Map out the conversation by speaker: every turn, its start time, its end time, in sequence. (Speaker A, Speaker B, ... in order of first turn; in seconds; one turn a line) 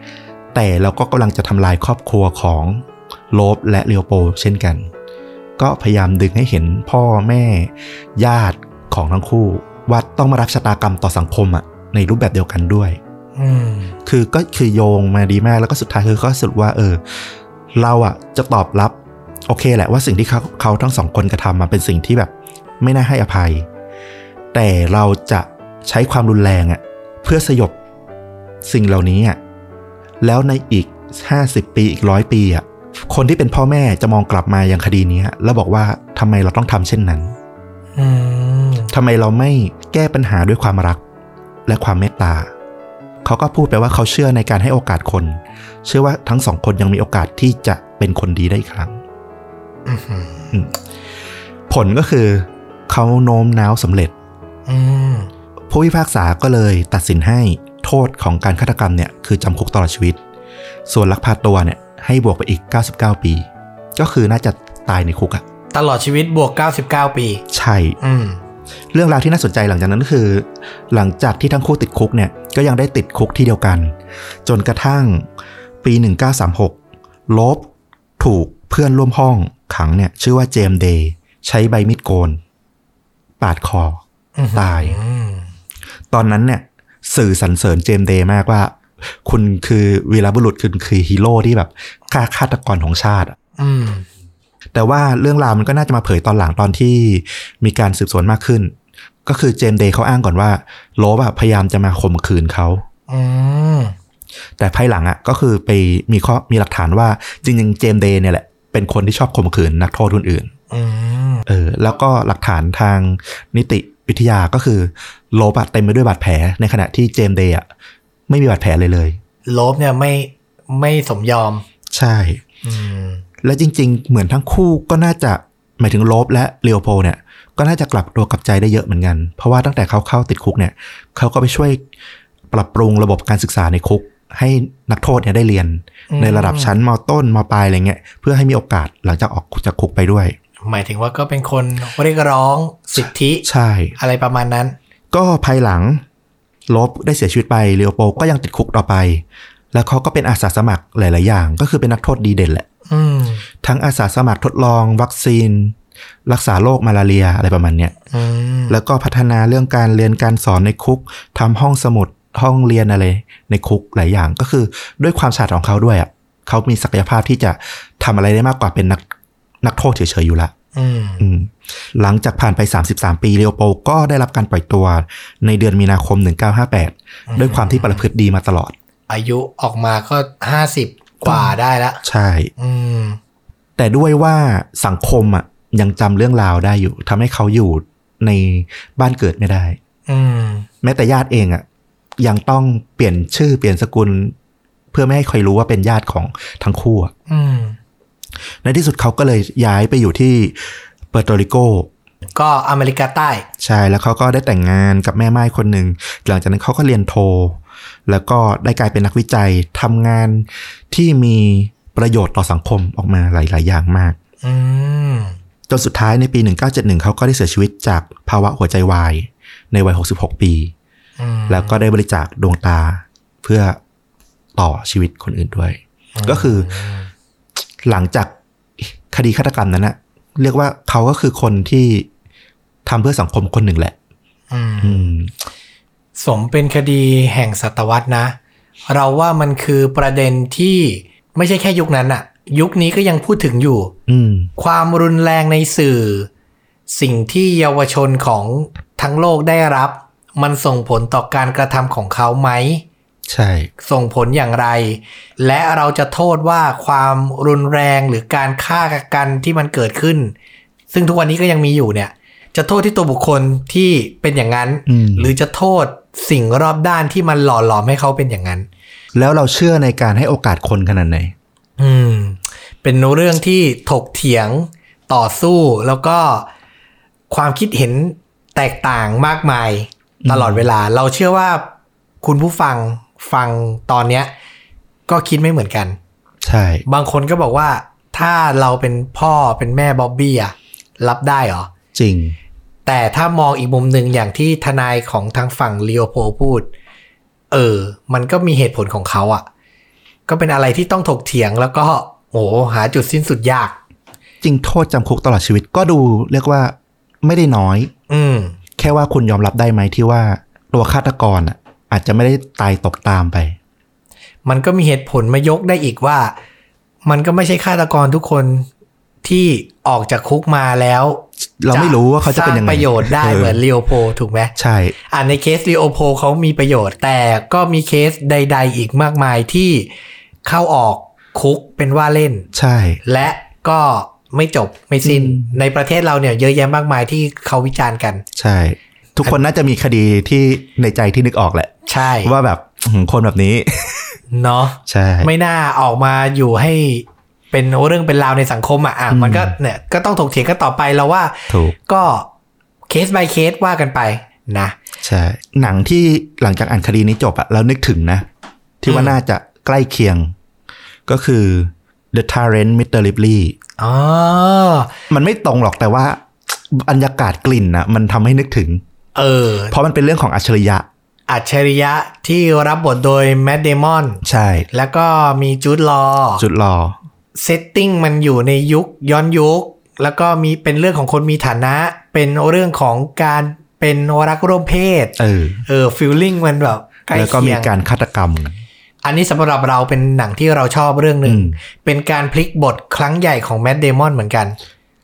Speaker A: 0.5-4.9
Speaker A: 5.6-13.0
Speaker B: 13.4-13.9
Speaker A: 14.1-19.0
Speaker A: 19.5-23.7
Speaker A: 24.5-27.8
Speaker A: 28.6-29.4
Speaker A: 30.2-37.3
Speaker B: 38.0-38.9
Speaker A: 38.9-41.0
Speaker A: 41.7-42.5
Speaker A: 43.2-49.0
Speaker B: 49.9-50.5
Speaker A: 51.7-54.1
Speaker B: 54.7-55.3
Speaker A: 55.7-60.2
Speaker A: 60.9-65.4
Speaker B: 65.7-67.4
Speaker A: 67.5-68.0
Speaker B: 68.0-68.4
Speaker A: 68.9-74.0
Speaker A: 74.5-75.3
Speaker A: 75.8-76.8
Speaker A: 77.3-77.7
Speaker A: 78.2-82.4
Speaker A: 83.4-84.0
Speaker B: 84.4-85.5
Speaker A: 84.5-85.0
Speaker A: 86.1-93.4
Speaker B: 93.6-94.1
Speaker A: 94.7-98.7
Speaker A: 99.3-102.8
Speaker B: 103.1-104.0
Speaker A: 104.6-110.5
Speaker B: 110.7-111.5
Speaker A: 111.5-117.7
Speaker A: 118.3-119.2
Speaker B: 119.5-121.7
Speaker A: 121.9-122.4
Speaker B: 122.6-123.2
Speaker A: 123.4-131.8
Speaker A: 132.5-140.3
Speaker B: 136.1-136.7
Speaker B: 140.7-143.5
Speaker A: 143.4-144.0
Speaker B: 144.0-144.8
Speaker A: 145.1-146.0
Speaker A: 146.7-152.7
Speaker B: 152.9-153.4
Speaker A: 153.6-155.8
Speaker A: 156.3-157.9
Speaker B: 158.1-158.8
Speaker A: 158.7-169.0
Speaker A: 169.6-170.5
Speaker B: 170.7-171.2
Speaker A: 171.2-178.7
Speaker B: 177.3-178.1
Speaker B: 179.1-182.0
Speaker A: 181.2-182.5
Speaker B: 182.6-183.2
Speaker A: 183.8-189.8
Speaker B: 190.1-190.7
Speaker A: 190.8-191.6
Speaker A: 192.2-194.3
Speaker A: 194.9-197.1
Speaker B: 197.3-197.8
Speaker A: 198.6-201.9
Speaker B: 202.4-203.5
Speaker A: 203.6-214.2
Speaker B: 214.4-215.4
Speaker A: 215.7-220.7
Speaker B: 221.2-221.8
Speaker A: 221.5-223.8
Speaker A: 224.6-226.7
Speaker B: 226.2-227.1
Speaker A: 227.9-232.1
Speaker A: 232.9-233.9
Speaker B: 234.5-235.1
Speaker A: 234.8-235.3
Speaker B: 236.2-238.4
Speaker B: 238.9-243.9
Speaker A: 244.1-244.5
Speaker B: 244.6-246.3
Speaker B: 246.9-252.8
Speaker A: 253.3-253.7
Speaker B: 253.8-260.3
Speaker B: 260.9-268.7
Speaker A: 264.9-265.3
Speaker A: 269.1-271.3
Speaker B: 271.8-276.5
Speaker B: 277.3-281.7
Speaker A: 280.2-280.7
Speaker B: 282.2-284.3
Speaker B: 285.1-286.0
Speaker A: 286.4-286.8
Speaker B: 286.9-291.7
Speaker A: 291.9-292.4
Speaker B: 292.9-296.7
Speaker B: 297.5-299.5
Speaker B: 300.3-303.8
Speaker A: 304.4-307.9
Speaker B: 308.1-308.6
Speaker A: 308.8-313.6
Speaker B: 314.4-316.4
Speaker B: 317.1-318.7
Speaker B: 319.2-324.5
Speaker A: 321.6-323.6
Speaker A: 324.6-324.9
Speaker B: 325.1-329.9
Speaker B: 330.4-332.5
Speaker A: 332.5-333.0
Speaker B: 333.0-338.2
Speaker A: 335.0-335.6
Speaker A: 338.4-344.2
Speaker B: 341.9-342.3
Speaker B: 344.3-352.3
Speaker A: 344.9-345.3
Speaker A: 349.1-349.6
Speaker A: 351.5-351.8
Speaker B: 352.9-354.8
Speaker A: 355.0-358.3
Speaker A: 358.8-360.3
Speaker B: 358.9-359.2
Speaker A: 361.1-363.6
Speaker B: 363.8-364.9
Speaker A: 365.1-368.8
Speaker B: 369.1-369.8
Speaker A: 369.7-370.9
Speaker B: 371.3-376.4
Speaker A: 374.2-374.7
Speaker A: 376.4-377.0
Speaker B: 377.4-385.1
Speaker A: 385.2-385.6
Speaker B: 385.7-387.7
Speaker A: 387.1-388.6
Speaker B: 389.0-394.6
Speaker A: 391.2-391.6